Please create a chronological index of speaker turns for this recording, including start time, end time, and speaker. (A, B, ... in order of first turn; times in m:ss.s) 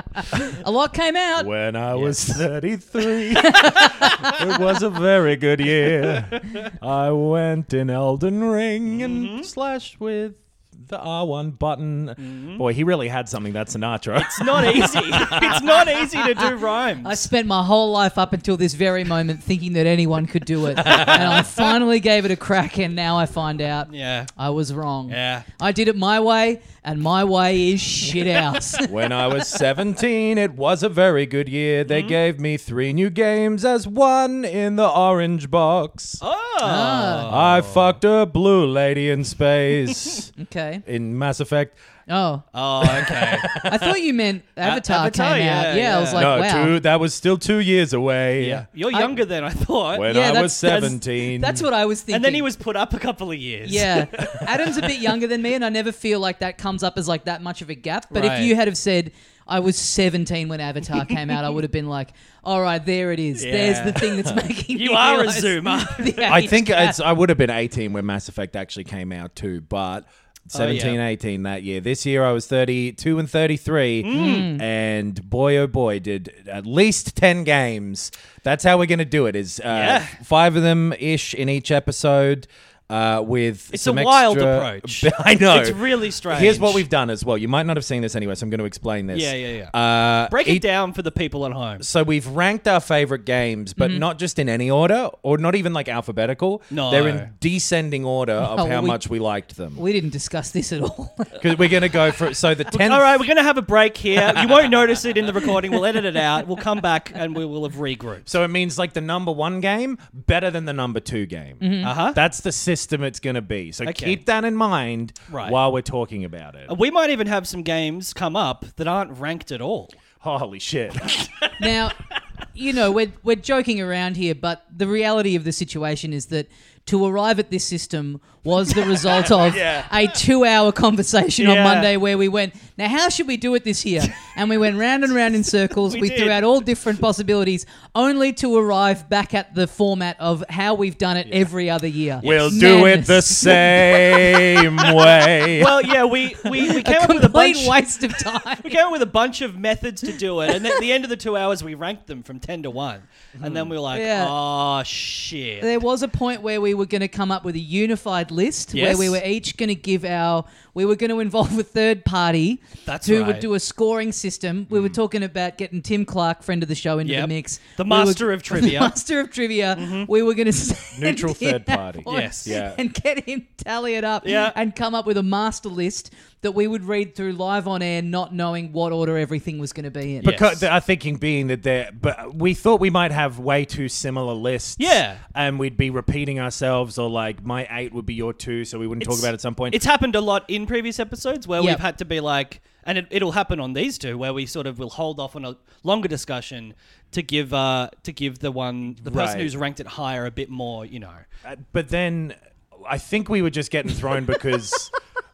0:00.2-0:01.5 A
0:01.4-0:16.5 B
0:01.9-0:02.4 C
0:03.3-0:04.4 A
0:08.9-0:09.5 C
0:12.2-0:12.6 C
0:14.2-0:17.2 C
0:17.0-0:29.4 A
0:20.9-0:21.1 B
0:20.9-0:21.5 C
0:23.9-0:24.3 C
0:25.1-0:25.5 C
0:28.8-0:36.2 B
0:31.9-0:32.2 C
0:36.2-0:38.0 C
0:36.6-0:37.3 A
0:37.3-0:40.3 B
0:40.4-0:40.8 A
0:40.8-0:41.8 B
0:42.1-0:42.4 A
0:42.5-0:43.5 C
0:42.8-0:43.9 B
0:43.5-0:46.8 A
0:44.6-0:46.3 C
0:46.1-0:48.7 B
0:48.4-0:51.0 C
0:48.9-0:49.2 A
0:49.9-0:51.6 B
0:50.0-0:52.5 A
0:52.1-0:55.1 C
0:53.6-1:07.0 A
0:58.1-0:58.5 C
1:03.4-1:04.2 C
1:04.7-1:06.3 C
1:06.3-1:30.6 B
1:10.5-1:11.0 C
1:14.0-1:14.5 C
1:14.1-1:14.6 A
1:19.7-1:20.2 C
1:23.7-1:26.8 C
1:29.1-1:29.8 C
1:30.3-1:31.8 C
1:31.8-1:39.8 B
1:33.8-1:34.1 A
1:36.7-1:37.3 C
1:38.4-1:39.0 A
1:39.8-1:41.4 A
1:41.4-1:43.3 B
1:42.7-1:48.3 C
1:44.1-1:44.7 B
1:48.2-1:56.7 B
1:51.6-1:51.9 A
1:51.8-1:52.2 C
1:53.8-1:54.2 C
1:55.3-1:55.6 C
1:56.7-2:00.0 C
2:00.2-2:01.6 B
2:01.6-2:02.0 A
2:02.5-2:23.7 A
2:09.4-2:09.8 C
2:11.4-2:11.9 C
2:15.7-2:16.4 C
2:22.2-2:25.9 B
2:22.2-2:22.6 C
2:23.7-2:27.8 C
2:26.6-2:28.8 A
2:28.6-2:35.7 C
2:33.4-2:33.7 B
2:33.9-2:34.3 A
2:35.6-3:00.4 A
2:38.7-2:39.2 C
2:42.9-2:43.5 C
2:47.0-2:49.0 C
2:49.8-2:50.1 C
2:51.0-2:52.8 B
2:52.1-2:52.6 C
2:54.2-2:54.6 C
3:00.2-3:00.6 C
3:00.2-3:09.8 B
3:04.8-3:05.2 C
3:09.0-3:21.2 C
3:19.0-3:19.5 B
3:21.4-3:24.9 B